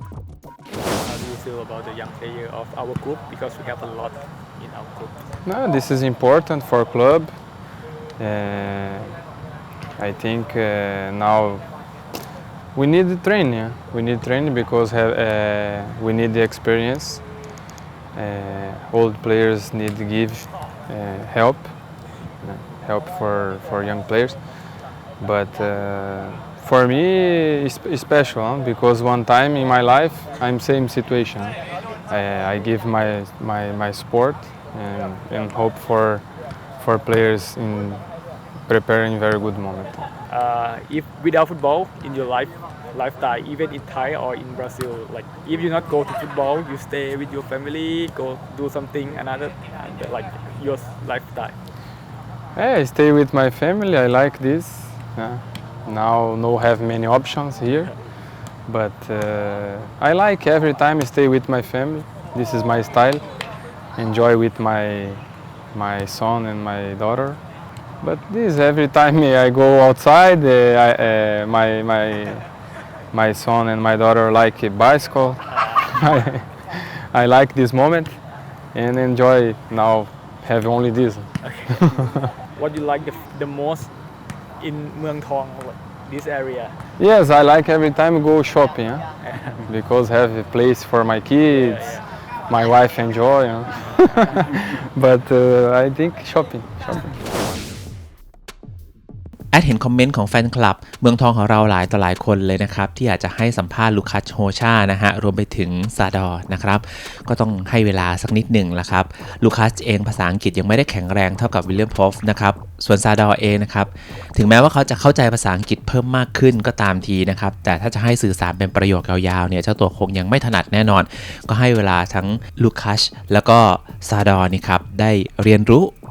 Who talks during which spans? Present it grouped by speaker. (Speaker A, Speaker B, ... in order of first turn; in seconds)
Speaker A: 1.0-5.2, 40.3-51.5, 75.5-75.8, 81.4-83.9, 84.6-86.7, 89.2-89.6, 91.5-92.0
Speaker B: 5.4-7.3, 8.2-9.1, 10.0-11.6, 12.7-17.2, 18.1-21.7, 22.4-24.4, 25.2-36.2, 36.8-38.0, 38.6-40.0, 52.5-57.9, 58.6-63.2, 64.0-67.4, 68.0-72.5, 73.1-78.2, 78.7-82.2, 87.0-89.0, 89.6-97.2
Speaker C: 99.5-125.9